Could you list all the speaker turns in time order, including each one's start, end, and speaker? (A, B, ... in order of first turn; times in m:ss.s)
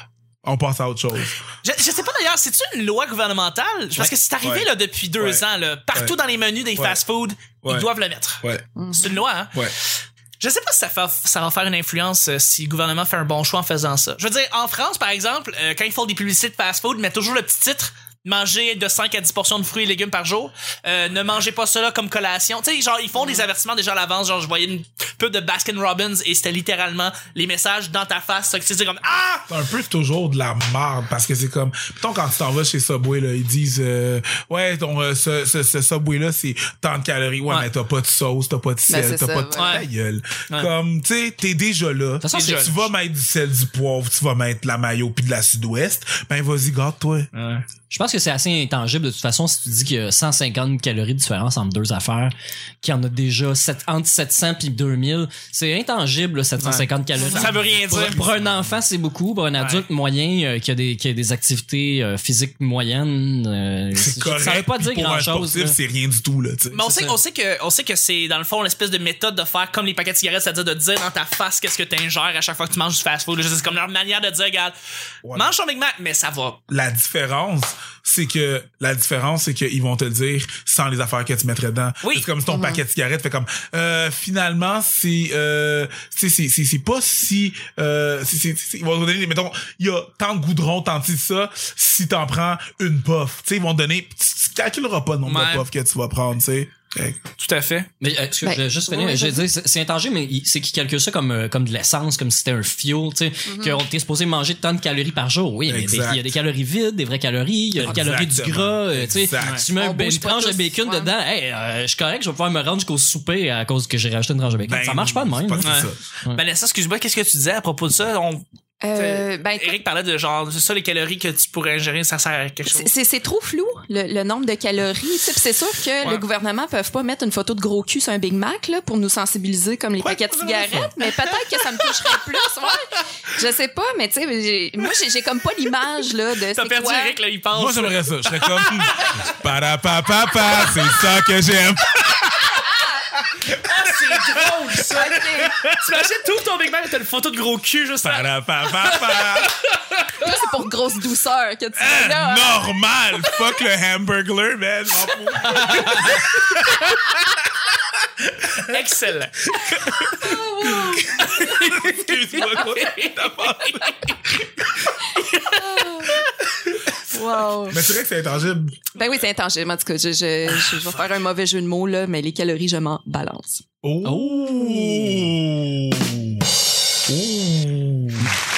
0:00.4-0:01.4 A
0:01.6-0:29.5 B
0:04.0-0:06.1 A
0:07.6-0:07.9 A
0:08.8-0:09.2 C
0:23.2-0:23.4 C
0:29.5-0:47.3 A
0:38.9-0:39.8 C
0:39.5-0:39.9 B
0:42.2-0:42.7 D
0:42.3-0:42.8 B
0:47.3-0:47.6 B
0:47.9-1:05.8 D
0:56.6-0:58.2 B
0:57.3-0:58.8 A
0:59.6-0:59.8 B
1:03.9-1:07.0 A
1:06.7-1:14.7 B
1:15.2-1:15.5 A
1:15.3-1:16.6 B
1:16.7-1:37.2 A
1:22.0-1:22.3 B
1:22.5-1:22.8 C
1:35.2-1:35.6 B
1:37.4-1:37.9 B
1:38.0-1:56.4 D
1:38.4-1:39.5 C
1:43.5-1:43.8 C
1:45.7-1:46.4 A
1:47.8-1:49.7 A
1:49.7-1:51.1 C
1:54.6-1:56.0 A
1:55.6-2:02.9 B
1:58.8-1:59.8 C
2:02.7-2:17.2 C
2:10.0-2:10.9 A
2:11.0-2:12.4 B
2:16.5-2:19.3 B
2:17.5-2:22.6 A
2:20.4-2:21.2 B
2:23.2-2:26.0 A
2:23.5-2:30.4 B
2:24.9-2:25.6 C
2:28.0-2:29.6 A
2:30.2-2:32.7 C
2:31.8-2:37.2 A
2:35.5-2:36.3 B
2:38.2-2:38.8 A
2:38.6-2:40.3 B
2:39.6-2:44.1 A
2:40.2-2:41.4 C
2:41.0-2:44.5 B
2:45.1-2:46.3 B
2:45.6-2:46.2 C
2:47.1-2:47.8 C
2:47.7-2:48.8 A
2:48.9-2:53.6 C
2:53.8-2:58.3 A
2:54.0-2:54.9 D
2:54.6-2:55.2 C